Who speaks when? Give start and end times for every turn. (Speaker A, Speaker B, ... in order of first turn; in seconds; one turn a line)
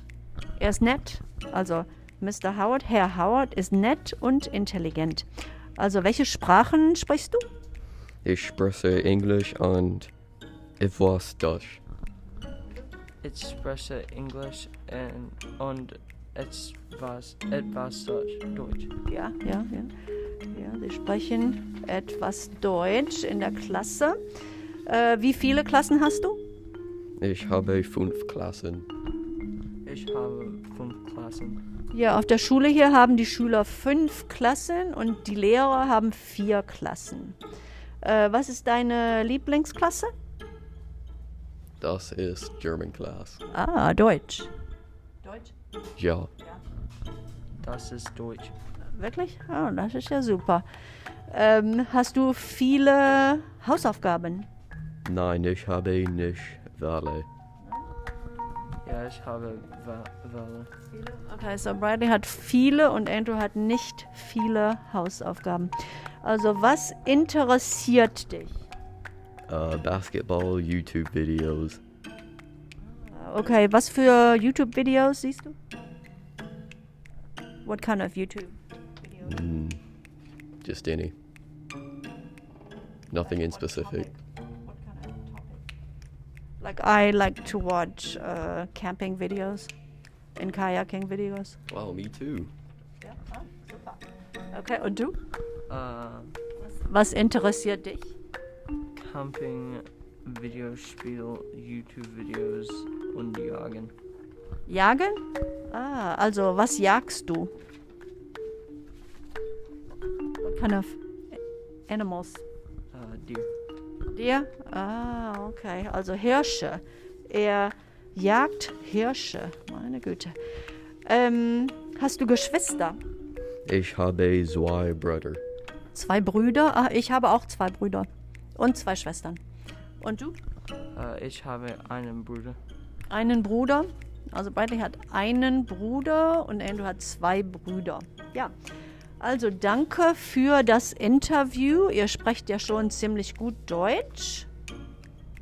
Speaker A: 0.6-5.2
Speaker A: 5.8-7.5
Speaker B: 8.2-10.1
Speaker B: 10.8-11.8
Speaker C: 13.2-18.9
Speaker A: 19.1-19.9
Speaker A: 20.5-24.2
Speaker A: 24.9-26.4
Speaker B: 27.2-28.9
Speaker C: 29.8-31.6
Speaker A: 31.9-37.4
Speaker A: 38.0-40.1
Speaker B: 41.8-43.4
Speaker A: 43.5-44.5
Speaker A: 45.2-45.5
Speaker B: 46.0-46.3
Speaker C: 47.6-48.5
Speaker A: 48.9-50.6
Speaker A: 51.3-54.5
Speaker B: 55.0-57.3
Speaker C: 58.8-60.7
Speaker A: 60.9-68.6
Speaker B: 69.5-71.8
Speaker A: 73.0-75.5
Speaker A: 77.6-79.4
Speaker B: 79.2-79.8
Speaker B: 80.6-81.1
Speaker B: 83.1-84.1
Speaker A: 83.2-85.6
Speaker A: 86.6-89.7
Speaker A: 90.3-91.6
Speaker B: 91.7-92.5
Speaker A: 93.0-95.2
Speaker C: 95.7-96.3
Speaker A: 96.6-98.1
Speaker C: 99.0-103.9
Speaker A: 104.7-107.5
Speaker A: 110.4-112.4
Speaker C: 112.9-113.5
Speaker A: 114.1-120.3
Speaker A: 121.0-123.0
Speaker B: 123.6-125.4
Speaker A: 125.9-129.4
Speaker A: 130.0-130.4
Speaker C: 130.9-132.6
Speaker A: 133.1-138.5
Speaker A: 139.2-144.5